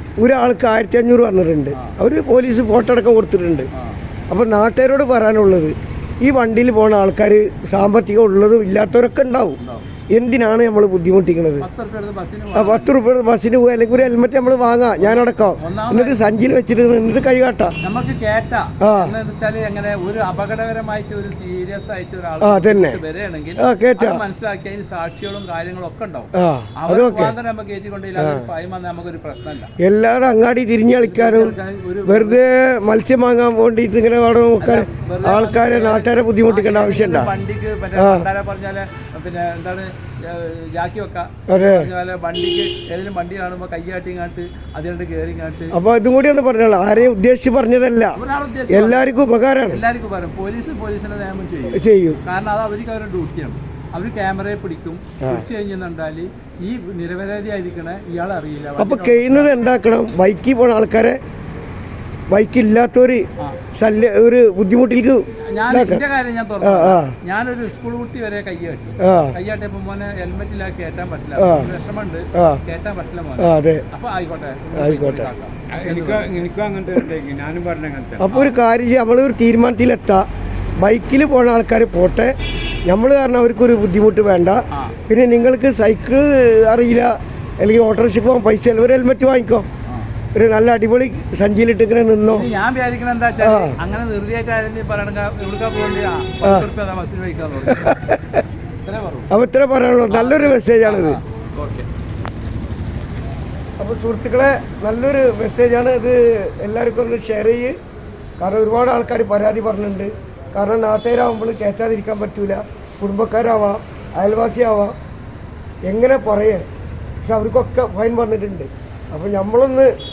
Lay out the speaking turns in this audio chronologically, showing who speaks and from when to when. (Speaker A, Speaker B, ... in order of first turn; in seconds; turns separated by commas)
Speaker A: 0.2-3.7, Speaker B: 1.7-2.0, Speaker B: 3.7-4.0, Speaker A: 4.3-9.6, Speaker B: 9.6-9.9, Speaker A: 10.1-11.7, Speaker B: 11.6-12.9, Speaker A: 12.5-17.7, Speaker B: 15.0-16.3, Speaker B: 17.8-29.7, Speaker A: 18.8-19.1, Speaker A: 22.4-23.0, Speaker A: 23.6-24.2, Speaker A: 26.4-27.4, Speaker A: 28.2-28.4, Speaker A: 29.8-37.3, Speaker B: 31.0-32.4, Speaker B: 34.6-45.8, Speaker A: 37.9-38.3, Speaker A: 41.5-41.9, Speaker A: 45.7-48.2, Speaker B: 48.1-49.0, Speaker A: 48.7-49.8, Speaker B: 49.7-59.6, Speaker A: 51.7-52.2, Speaker A: 55.2-55.5, Speaker A: 58.8-61.2, Speaker A: 62.3-66.0, Speaker B: 65.5-76.4, Speaker A: 66.6-67.1, Speaker A: 69.0-69.3, Speaker A: 71.4-71.7, Speaker A: 73.4-73.8, Speaker A: 74.8-75.3, Speaker C: 75.7-78.3, Speaker A: 78.2-80.2, Speaker B: 78.3-78.6, Speaker A: 80.8-82.3, Speaker A: 82.9-89.7, Speaker B: 84.7-85.0, Speaker A: 90.3-92.5, Speaker B: 92.3-98.1, Speaker A: 93.4-93.8, Speaker A: 96.4-96.7, Speaker A: 97.7-98.4, Speaker B: 98.8-99.3, Speaker A: 99.3-101.2, Speaker B: 100.1-101.8, Speaker A: 103.8-107.8, Speaker A: 108.4-114.9, Speaker A: 115.8-116.6, Speaker A: 117.2-119.9